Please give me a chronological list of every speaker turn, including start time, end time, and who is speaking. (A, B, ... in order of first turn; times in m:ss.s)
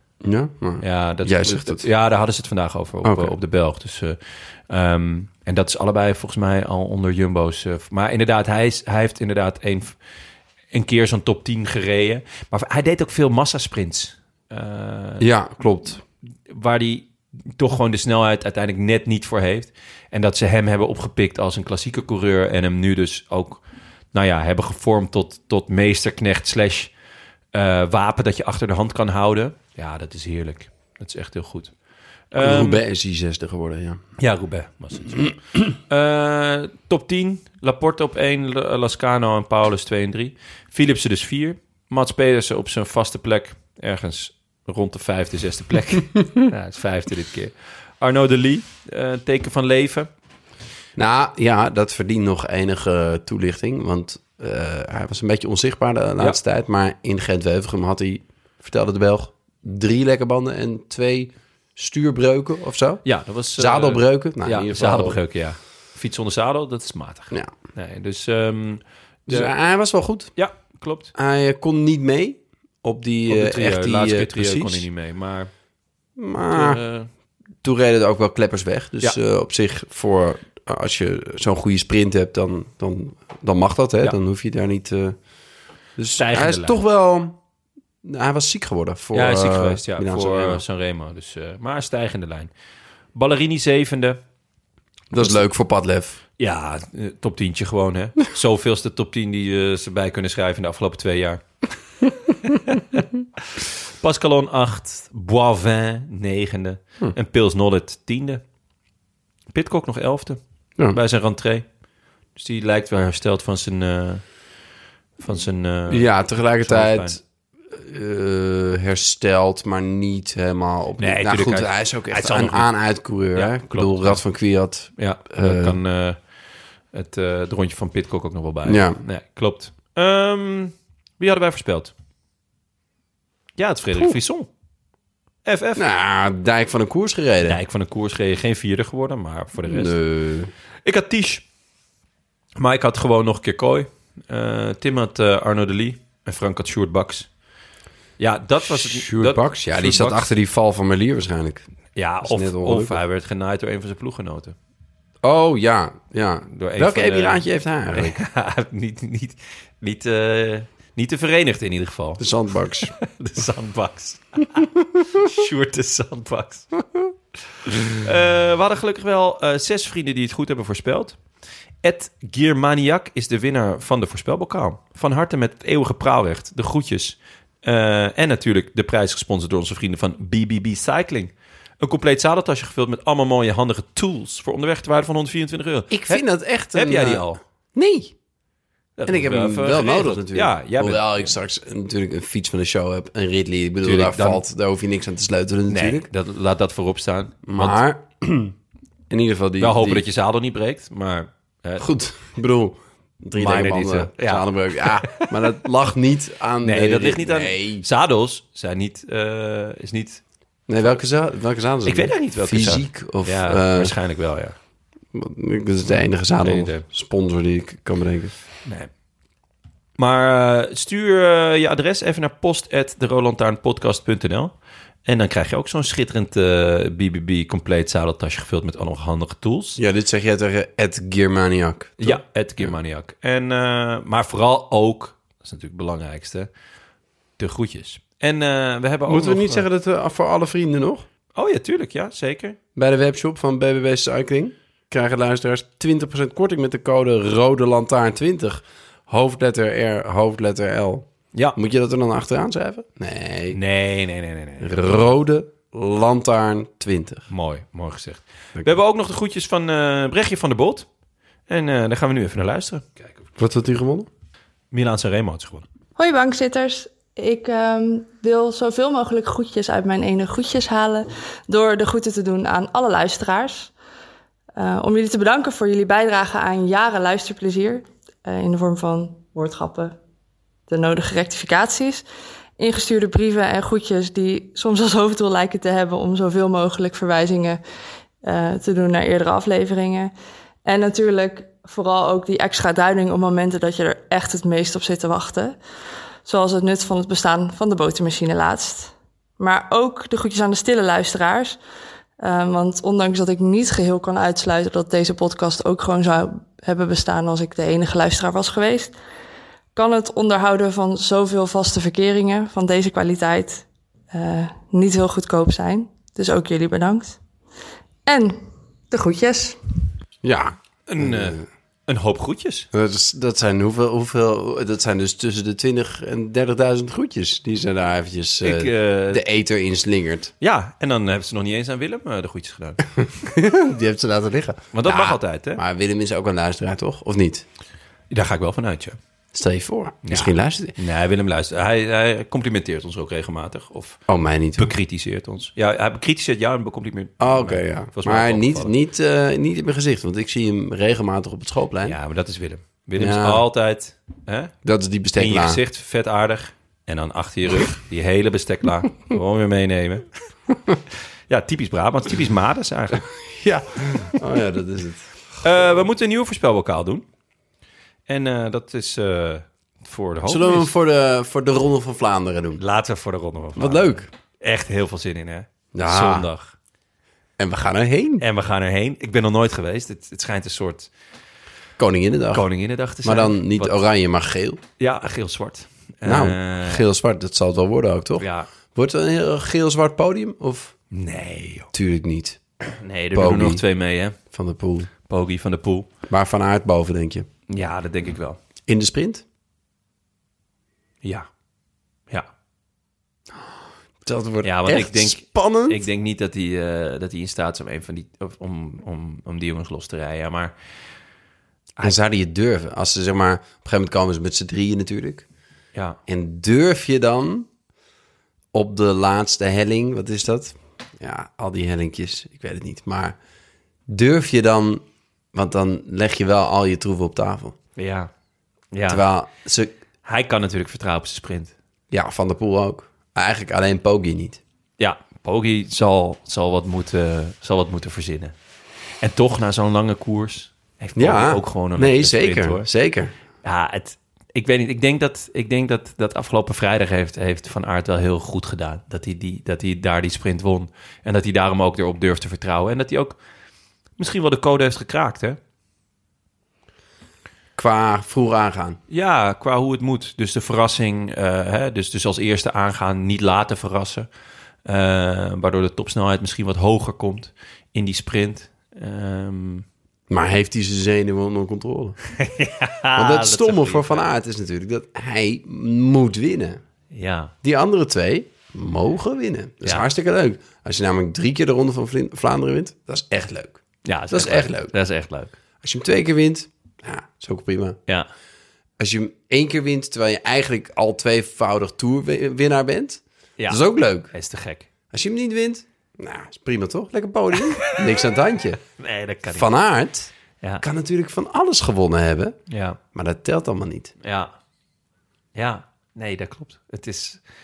0:00.2-0:01.8 A
0:00.8-0:04.2 B
0:03.0-0:03.4 A
0:04.7-0:10.0 B
0:10.7-0:15.2 B
0:15.2-0:16.0 A
0:16.5-0:23.6 B
0:24.1-0:26.9 B
0:27.5-0:31.7 B
0:32.3-0:32.8 B
0:32.4-0:34.0 A
0:34.2-0:50.1 B
0:51.0-1:03.0 A
1:03.0-1:09.5 B
1:03.6-1:05.2 A
1:09.3-1:10.4 A
1:10.4-1:11.1 B
1:11.1-1:14.9 A
1:13.3-1:15.5 B
1:16.2-1:16.8 A
1:16.5-1:17.1 B
1:17.6-1:25.2 A
1:26.0-1:27.4 A
1:26.2-1:26.8 B
1:28.0-1:30.6 A
1:29.1-1:32.5 B
1:33.1-1:34.2 B
1:35.1-1:36.2 A
1:35.1-1:35.4 B
1:36.4-1:41.4 B
1:42.0-1:48.4 B
1:49.5-1:51.6 B
1:52.4-1:54.2 B
1:55.2-1:57.2 B
1:55.9-2:05.8 A
2:01.0-2:02.7 B
2:03.3-2:04.2 B
2:05.0-2:06.2 B
2:06.9-2:11.9 B
2:08.6-2:09.0 A
2:13.6-2:14.5 B
2:15.4-2:15.8 B
2:15.8-2:17.6 A
2:17.4-2:20.0 B
2:19.6-2:20.5 A
2:20.8-2:21.4 B
2:22.6-2:27.3 B
2:28.2-2:30.3 B
2:28.6-2:31.6 A
2:32.0-2:34.5 B
2:32.2-2:33.0 A
2:35.2-2:38.2 A
2:36.5-2:42.2 B
2:42.2-2:42.9 A
2:42.8-2:46.7 B
2:47.6-2:51.2 B
2:51.8-3:07.4 B
3:05.9-3:08.1 A
3:09.0-3:11.2 B
3:09.0-3:16.1 A
3:13.8-3:14.4 B
3:15.7-3:17.8 B
3:17.4-3:18.5 A
3:19.1-3:20.0 A
3:19.6-3:21.8 B
3:21.8-3:27.8 A
3:23.4-3:25.4 B
3:26.6-3:30.2 B
3:30.7-3:33.9 A
3:31.8-3:34.6 B
3:35.1-3:38.3 A
3:35.9-3:36.8 B
3:40.0-3:44.5 B
3:45.0-3:49.8 B
3:49.8-3:52.7 A
3:52.0-3:56.5 B
3:57.4-3:59.6 B
3:59.0-4:01.1 A
4:01.3-4:02.6 B
4:02.8-4:13.6 A
4:13.5-4:15.0 B
4:14.6-4:17.3 A
4:17.3-4:20.9 B
4:21.5-4:23.1 B
4:23.4-4:24.1 A
4:24.7-4:25.6 B
4:26.0-4:33.7 C
4:34.6-4:40.0 C
4:40.7-4:42.0 C
4:42.6-4:47.6 C
4:48.2-4:50.1 C
4:50.6-4:55.6 C
4:56.2-5:01.6 C
5:02.2-5:08.9 C
5:09.7-5:17.2 C
5:18.0-5:19.6 C
5:20.2-5:21.4 A
5:20.9-5:22.7 B
5:22.7-5:30.3 A
5:28.4-5:29.2 B
5:30.4-5:33.0 B
5:33.3-5:37.4 A
5:34.7-5:35.6 B
5:38.1-5:39.0 B
5:39.3-5:40.8 A
5:40.0-5:44.0 B
5:44.1-5:44.7 A
5:44.6-5:48.7 B
5:47.2-5:52.0 A
5:51.8-5:54.5 B
5:53.0-5:53.4 A
5:54.6-5:55.6 A
5:55.2-6:00.1 B
6:01.3-6:03.1 B
6:03.3-6:05.6 A
6:05.4-6:07.0 B
6:08.1-6:10.7 B
6:10.2-6:12.6 A
6:12.6-6:16.5 B
6:13.6-6:14.1 A
6:15.7-6:16.3 A
6:17.4-6:18.2 A
6:18.2-6:20.9 B
6:21.8-6:22.4 A
6:22.3-6:23.8 B
6:23.0-6:24.6 A
6:24.8-6:26.8 B
6:26.0-6:30.7 A
6:28.2-6:28.5 B
6:30.9-6:31.7 B
6:31.7-6:32.4 A
6:32.8-6:34.2 B
6:33.1-6:33.6 A
6:34.3-6:34.9 A
6:35.1-6:35.9 B
6:36.1-6:37.3 A
6:37.5-6:38.4 B
6:38.7-6:39.2 A
6:44.0-6:45.8 A
6:44.4-6:50.5 B
6:51.8-6:55.2 A
6:56.1-6:57.5 A
6:58.5-7:03.2 A
7:03.9-7:04.8 A
7:05.3-7:07.6 A
7:07.8-7:08.1 B
7:08.7-7:09.0 B
7:08.9-7:09.7 A
7:10.0-7:11.5 B
7:11.9-7:14.4 A
7:14.8-7:18.3 B
7:19.0-7:22.7 B
7:21.0-7:23.1 A
7:23.4-7:33.2 B
7:34.0-7:35.4 B
7:37.6-7:38.8 A
7:38.9-7:44.1 B
7:44.6-7:49.6 B
7:50.1-7:52.0 A
7:52.2-7:54.0 B
7:52.9-7:56.6 A
7:56.9-7:57.3 B
7:57.4-8:04.7 A
8:03.8-8:05.3 B
8:05.6-8:07.8 A
8:08.8-8:14.1 A
8:13.4-8:14.7 B
8:14.9-8:18.6 A
8:18.8-8:19.5 B
8:19.3-8:22.4 A
8:22.5-8:22.8 B
8:22.9-8:23.9 A
8:24.0-8:24.3 B
8:25.3-8:27.2 B